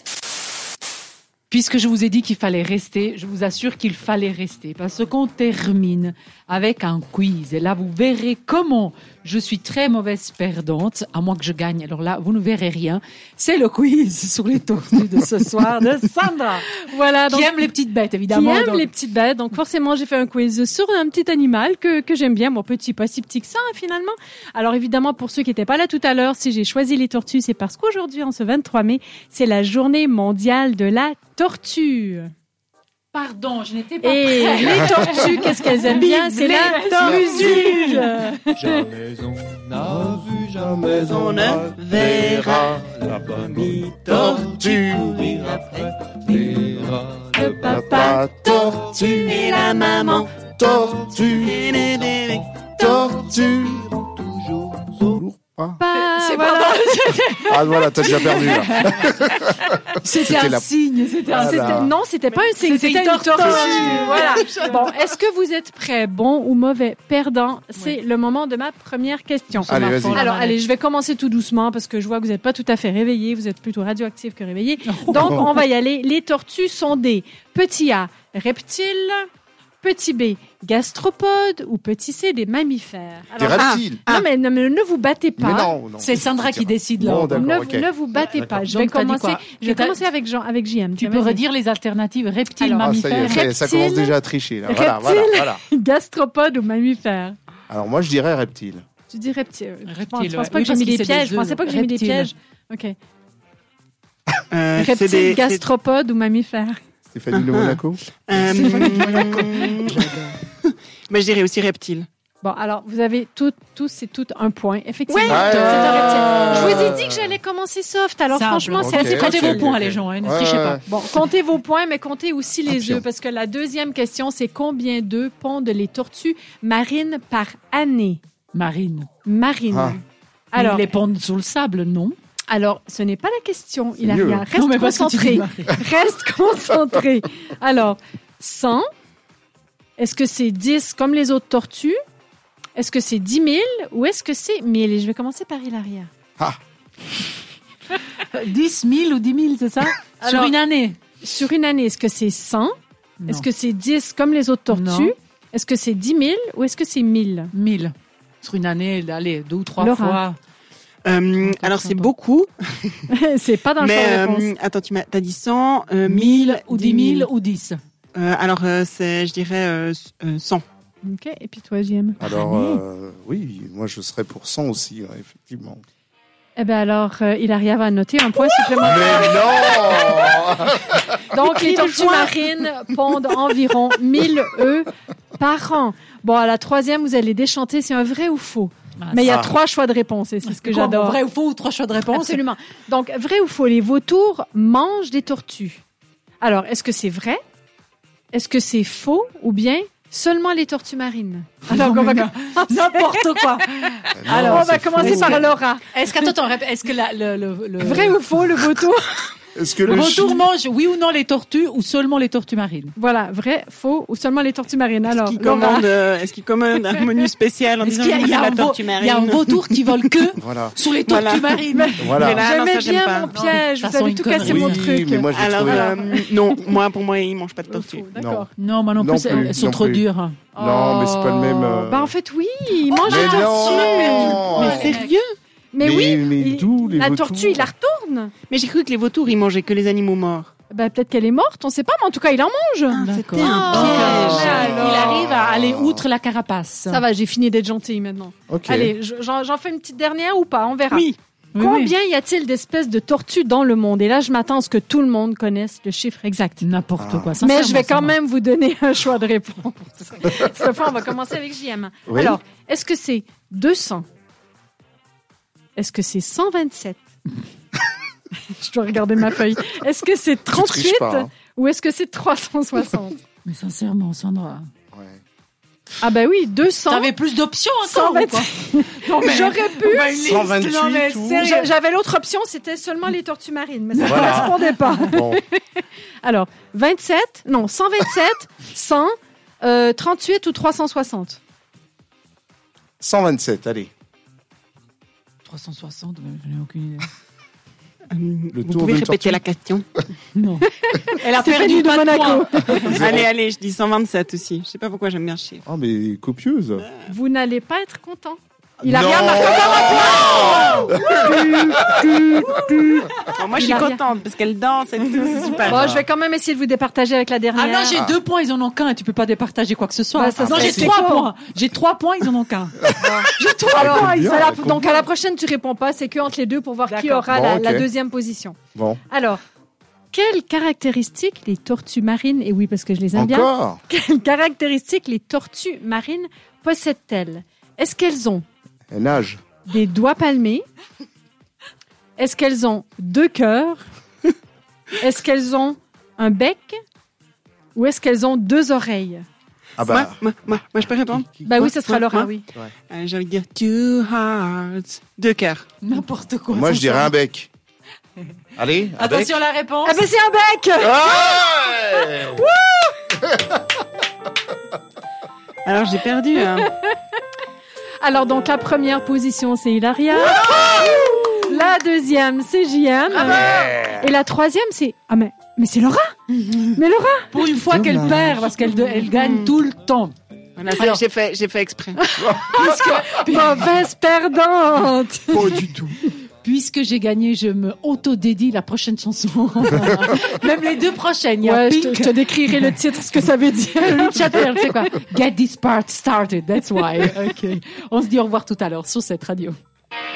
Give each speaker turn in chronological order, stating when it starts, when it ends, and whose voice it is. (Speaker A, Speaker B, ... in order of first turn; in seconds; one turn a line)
Speaker A: 1.5-15.8
Speaker B: 15.5-17.5
Speaker A: 17.3-18.9
Speaker B: 18.3-32.3
Speaker A: 33.1-38.4
Speaker B: 34.0-38.9
Speaker C: 37.0-37.5
Speaker D: 38.6-41.5
Speaker C: 40.6-43.5
Speaker E: 40.9-45.0
Speaker C: 44.1-45.5
Speaker D: 45.1-45.6
Speaker D: 46.1-47.8
Speaker A: 46.3-46.6
Speaker B: 47.3-50.1
Speaker C: 47.5-49.5
Speaker E: 49.2-50.3
Speaker C: 50.5-51.8
Speaker E: 51.3-52.6
Speaker D: 52.6-54.9
Speaker C: 52.8-54.0
Speaker C: 55.0-55.8
Speaker B: 55.8-57.2
Speaker A: 55.9-61.9
Speaker C: 57.5-60.7
Speaker C: 61.3-61.9
Speaker B: 61.3-79.3
Speaker A: 62.6-64.9
Speaker E: 63.9-64.6
Speaker A: 69.5-70.6
Speaker C: 69.7-70.3
Speaker A: 74.8-75.6
Speaker B: 79.8-85.8
Speaker C: 83.4-84.0
Speaker E: 83.5-84.3
Speaker C: 85.4-88.7
Speaker A: 86.0-87.7
Speaker B: 87.3-91.4
Speaker A: 88.3-90.0
Speaker A: 91.0-93.5
Speaker B: 92.6-97.4
Speaker C: 92.8-95.6
Speaker C: 97.7-98.8
Speaker B: 99.1-103.0
Speaker A: 99.9-102.3
Speaker E: 104.5-105.7
Speaker B: 104.8-106.8
Speaker C: 107.1-108.0
Speaker E: 107.3-112.1
Speaker A: 108.4-110.2
Speaker B: 112.4-119.7
Speaker E: 115.1-116.2
Speaker C: 115.3-117.2
Speaker A: 116.3-116.9
Speaker A: 118.3-120.8
Speaker C: 118.7-120.8
Speaker B: 120.9-128.2
Speaker C: 122.7-123.0
Speaker A: 128.5-129.1
Speaker B: 129.2-130.0
Speaker C: 129.7-130.0
Speaker B: 130.5-130.9
Speaker A: 130.5-132.1
Speaker B: 132.5-138.8
Speaker C: 134.0-134.4
Speaker A: 134.5-135.8
Speaker B: 140.0-142.0
Speaker B: 142.8-146.1
Speaker A: 148.1-151.0
Speaker B: 150.2-150.6
Speaker B: 151.2-152.7
Speaker A: 153.2-153.5
Speaker B: 153.3-157.5
Speaker A: 154.7-155.1
Speaker A: 157.5-160.4
Speaker B: 159.8-160.2
Speaker E: 161.0-163.0
Speaker A: 161.4-162.1
Speaker B: 163.1-164.5
Speaker E: 163.8-167.3
Speaker A: 166.1-167.8
Speaker E: 168.1-170.6
Speaker B: 171.0-172.2
Speaker C: 172.2-175.8
Speaker A: 172.2-172.8
Speaker B: 176.6-180.7
Speaker C: 178.8-181.2
Speaker B: 181.2-191.2
Speaker E: 181.5-182.5
Speaker A: 189.0-189.5
Speaker C: 189.2-189.5
Speaker A: 190.4-192.4
Speaker B: 192.1-195.8
Speaker B: 196.4-197.4
Speaker B: 198.3-203.5
Speaker A: 201.6-208.2
Speaker C: 204.1-205.5
Speaker B: 204.2-206.3
Speaker B: 207.8-209.4
Speaker C: 209.5-210.4
Speaker A: 209.8-212.9
Speaker B: 213.0-215.9
Speaker E: 215.1-219.6
Speaker A: 217.8-222.4
Speaker C: 220.3-220.8
Speaker E: 221.0-223.4
Speaker B: 221.7-226.8
Speaker C: 222.0-222.4
Speaker A: 223.3-224.9
Speaker C: 224.4-225.9
Speaker E: 225.3-228.1
Speaker B: 227.7-228.5
Speaker C: 228.1-228.5
Speaker A: 228.6-230.4
Speaker C: 229.0-230.0
Speaker B: 230.5-235.0
Speaker C: 230.6-232.1
Speaker A: 232.9-235.1
Speaker C: 233.0-235.0
Speaker E: 233.7-235.3
Speaker B: 235.7-238.3
Speaker C: 235.8-237.7
Speaker E: 238.5-240.5
Speaker B: 240.7-245.3
Speaker E: 242.9-244.5
Speaker A: 243.0-247.0
Speaker C: 243.7-245.3
Speaker B: 246.9-256.6
Speaker C: 248.5-248.9
Speaker E: 250.9-251.2
Speaker A: 251.5-251.9
Speaker A: 256.6-258.1
Speaker C: 257.0-257.3
Speaker B: 257.4-264.1
Speaker C: 262.1-262.4
Speaker B: 265.8-267.0
Speaker B: 268.3-273.2
Speaker C: 270.5-271.3
Speaker A: 273.4-274.7
Speaker C: 274.9-275.2
Speaker B: 276.0-277.1
Speaker A: 276.9-281.7
Speaker B: 277.8-280.4
Speaker C: 280.2-281.6
Speaker B: 281.3-291.4
Speaker A: 283.9-285.1
Speaker C: 284.0-285.4
Speaker C: 293.0-293.9
Speaker A: 295.4-297.1
Speaker E: 298.1-299.9
Speaker C: 298.5-299.4
Speaker A: 300.3-303.0
Speaker B: 300.8-303.0
Speaker C: 302.8-303.3
Speaker E: 302.8-305.6
Speaker C: 305.6-306.8
Speaker E: 306.8-307.1
Speaker B: 307.1-314.0
Speaker C: 308.8-312.8
Speaker A: 310.1-313.1
Speaker E: 313.3-315.9
Speaker C: 315.7-316.0
Speaker B: 315.7-318.0
Speaker A: 317.5-324.6
Speaker B: 320.1-321.3
Speaker C: 320.4-320.9
Speaker B: 323.0-328.6
Speaker C: 323.7-325.0
Speaker A: 326.9-327.3
Speaker C: 327.3-327.9
Speaker C: 328.8-329.0
Speaker B: 329.1-329.4
Speaker B: 330.1-338.4
Speaker C: 333.1-333.8
Speaker C: 338.9-339.4
Speaker B: 339.7-340.6
Speaker B: 342.2-343.8
Speaker B: 345.0-346.8
Speaker B: 347.8-349.2
Speaker C: 349.8-350.2
Speaker E: 349.8-352.3
Speaker B: 351.4-352.4
Speaker E: 352.9-355.6
Speaker A: 355.8-357.1
Speaker C: 356.5-357.5
Speaker C: 358.6-359.4
Speaker A: 358.9-360.1
Speaker B: 359.8-361.3
Speaker C: 360.8-362.4
Speaker B: 362.2-363.0
Speaker C: 363.3-363.6
Speaker E: 365.6-366.7
Speaker B: 366.5-366.9
Speaker B: 368.0-376.1
Speaker C: 370.3-371.0
Speaker A: 370.9-371.4
Speaker C: 373.1-374.1
Speaker A: 376.3-376.8
Speaker B: 376.8-377.3
Speaker A: 377.3-380.1
Speaker C: 377.6-378.4
Speaker E: 379.1-379.6
Speaker E: 380.6-382.0
Speaker A: 380.7-381.0
Speaker B: 382.0-385.7
Speaker C: 382.2-382.7
Speaker A: 382.2-383.8
Speaker C: 385.3-385.8
Speaker A: 386.4-392.8
Speaker B: 391.4-394.7
Speaker A: 393.8-399.6